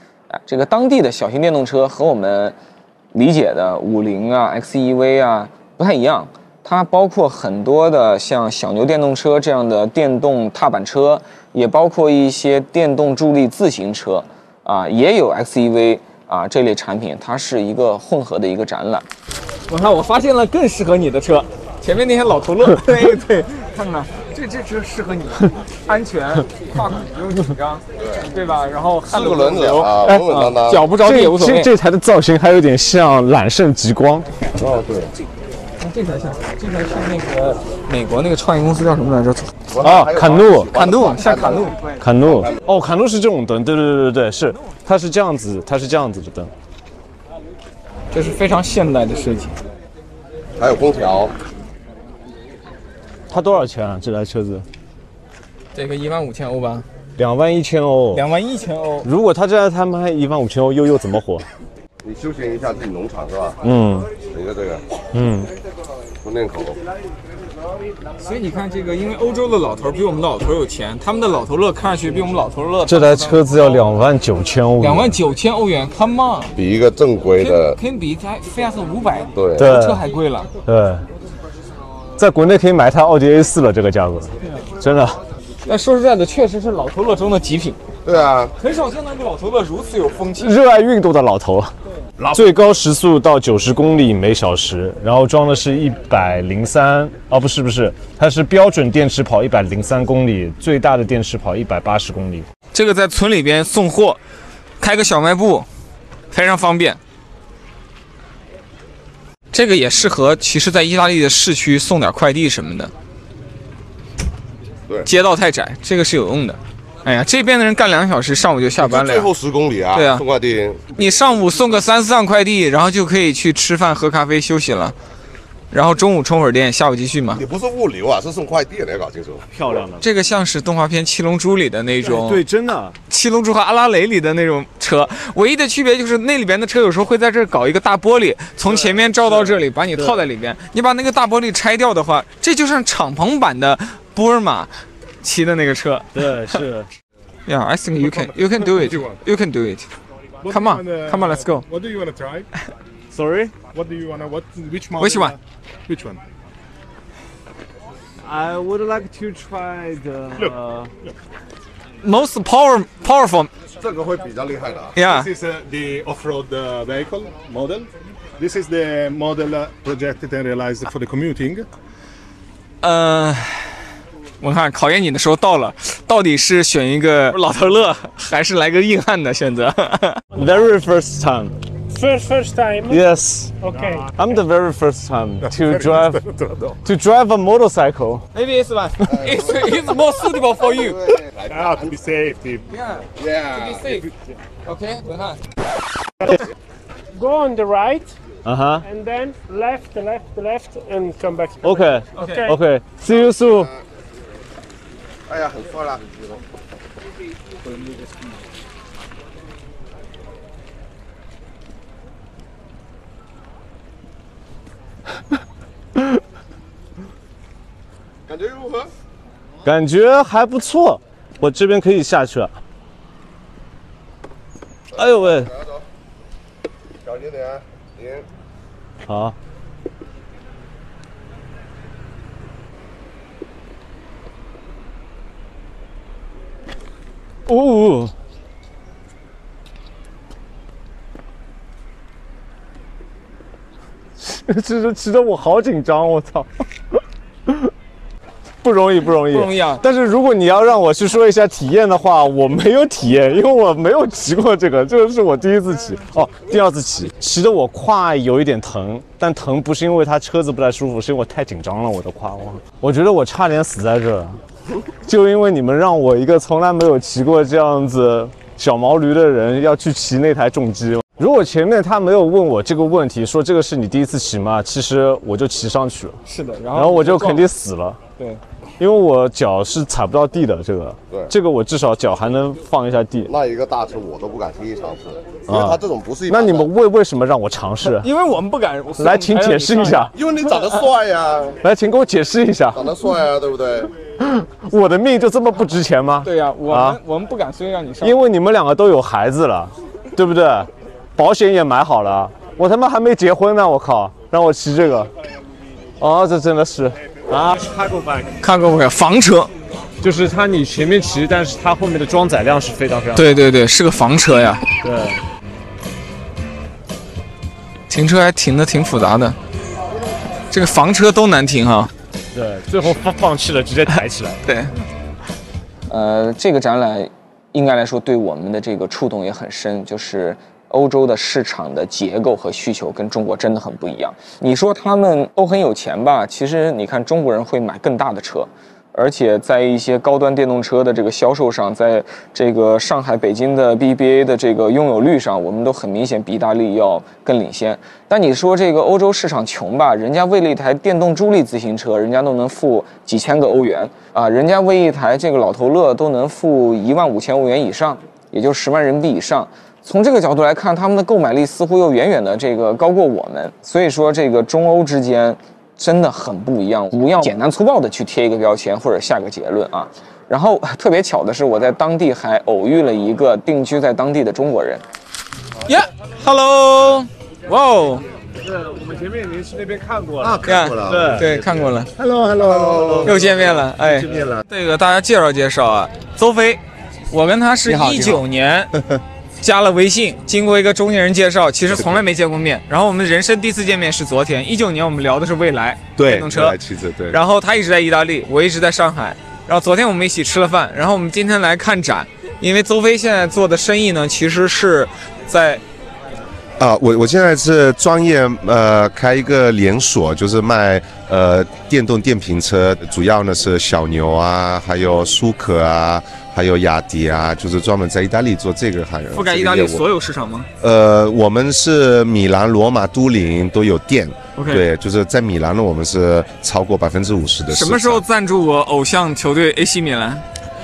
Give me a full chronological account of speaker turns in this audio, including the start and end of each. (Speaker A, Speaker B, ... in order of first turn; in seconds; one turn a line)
Speaker A: 0.3-2.6
Speaker A: 3.1-19.1
Speaker B: 19.7-31.7
Speaker C: 28.0-28.2
Speaker C: 29.1-30.9
Speaker D: 31.0-34.3
Speaker C: 34.6-35.1
Speaker B: 35.8-39.5
Speaker C: 39.7-41.7
Speaker D: 39.8-40.7
Speaker B: 40.7-41.9
Speaker D: 42.0-46.5
Speaker B: 48.1-49.6
Speaker C: 50.6-51.3
Speaker D: 53.3-54.7
Speaker B: 55.7-56.9
Speaker D: 57.2-58.2
Speaker B: 58.1-59.1
Speaker D: 59.0-61.5
Speaker C: 62.0-63.6
Speaker D: 63.6-64.1
Speaker C: 64.2-64.8
Speaker D: 65.1-65.5
Speaker C: 66.2-66.8
Speaker B: 68.2-73.8
Speaker D: 72.8-75.2
Speaker B: 74.8-76.6
Speaker C: 76.6-77.8
Speaker B: 77.4-80.5
Speaker C: 79.4-79.7
Speaker D: 79.6-80.0
Speaker D: 80.7-81.0
Speaker D: 82.2-85.2
Speaker B: 85.7-87.8
Speaker C: 88.1-88.5
Speaker B: 88.6-90.5
Speaker D: 90.4-91.7
Speaker D: 92.2-102.5
Speaker B: 102.7-104.2
Speaker B: 104.8-105.7
Speaker B: 106.3-107.0
Speaker B: 109.5-112.9
Speaker B: 115.0-119.3
Speaker C: 118.8-121.1
Speaker B: 119.9-120.2
Speaker B: 121.0-125.0
Speaker B: 125.7-127.4
Speaker C: 127.3-129.4
Speaker D: 129.5-130.1
Speaker B: 130.0-132.4
Speaker D: 132.0-132.9
Speaker B: 133.1-144.7
Speaker E: 138.7-139.5
Speaker D: 139.9-140.2
Speaker B: 145.2-146.6
Speaker D: 146.1-146.9
Speaker B: 147.5-149.9
Speaker E: 148.0-149.2
Speaker E: 150.4-152.5
Speaker B: 150.5-151.7
Speaker D: 153.1-153.6
Speaker E: 153.7-155.4
Speaker B: 155.0-155.4
Speaker E: 155.9-156.2
Speaker D: 158.2-160.9
Speaker B: 162.0-163.5
Speaker C: 163.8-165.0
Speaker B: 164.9-165.3
Speaker E: 165.1-171.7
Speaker B: 172.8-173.8
Speaker B: 174.4-180.2
Speaker D: 180.3-181.5
Speaker F: 181.9-183.0
Speaker D: 182.9-186.3
Speaker F: 183.6-184.1
Speaker E: 185.5-186.8
Speaker D: 186.8-188.2
Speaker B: 188.3-191.2
Speaker C: 189.1-189.9
Speaker C: 190.8-192.0
Speaker E: 191.5-192.6
Speaker B: 192.7-194.1
Speaker C: 193.2-193.8
Speaker B: 194.6-195.4
Speaker F: 197.1-198.2
Speaker D: 198.4-198.8
Speaker F: 198.8-202.6
Speaker D: 201.6-203.7
Speaker B: 202.1-202.5
Speaker C: 205.3-206.2
Speaker C: 218.3-218.9
Speaker D: 219.7-222.5
Speaker D: 224.9-225.6
Speaker C: 225.4-225.8
Speaker C: 227.0-228.3
Speaker D: 229.1-229.3
Speaker D: 237.5-238.1
Speaker D: 244.2-246.5
Speaker D: 247.5-247.7
Speaker D: 248.6-264.4
Speaker B: 249.1-249.8
Speaker D: 265.0-276.2
Speaker B: 276.2-277.5
Speaker D: 276.8-278.0
Speaker D: 278.8-283.3
Speaker C: 283.3-286.7
Speaker D: 285.5-288.1
Speaker B: 287.8-290.2
Speaker D: 289.0-290.1
Speaker C: 290.1-291.6
Speaker D: 291.6-292.9
Speaker C: 292.7-293.9
Speaker D: 294.2-297.0
Speaker B: 296.2-298.2
Speaker D: 298.0-305.1
Speaker D: 306.0-308.3
Speaker B: 308.4-309.5
Speaker D: 310.0-313.3
Speaker B: 313.1-314.6
Speaker D: 314.8-315.2
Speaker B: 317.9-319.4
Speaker B: 320.5-321.9
Speaker D: 322.4-324.4
Speaker B: 324.4-324.7
Speaker A: 325.9-374.8
Speaker B: 375.6-378.0
Speaker D: 378.4-381.3
Speaker G: 380.2-384.4
Speaker B: 380.4-381.9
Speaker C: 382.6-383.1
Speaker D: 382.7-384.3
Speaker B: 383.1-388.7
Speaker G: 387.7-388.2
Speaker G: 388.8-389.0
Speaker B: 389.4-396.6
Speaker G: 391.7-392.0
Speaker G: 396.0-397.2
Speaker B: 397.1-405.6
Speaker G: 406.6-419.9
Speaker B: 419.1-420.5
Speaker G: 420.6-428.0
Speaker B: 424.4-424.7
Speaker B: 427.5-430.2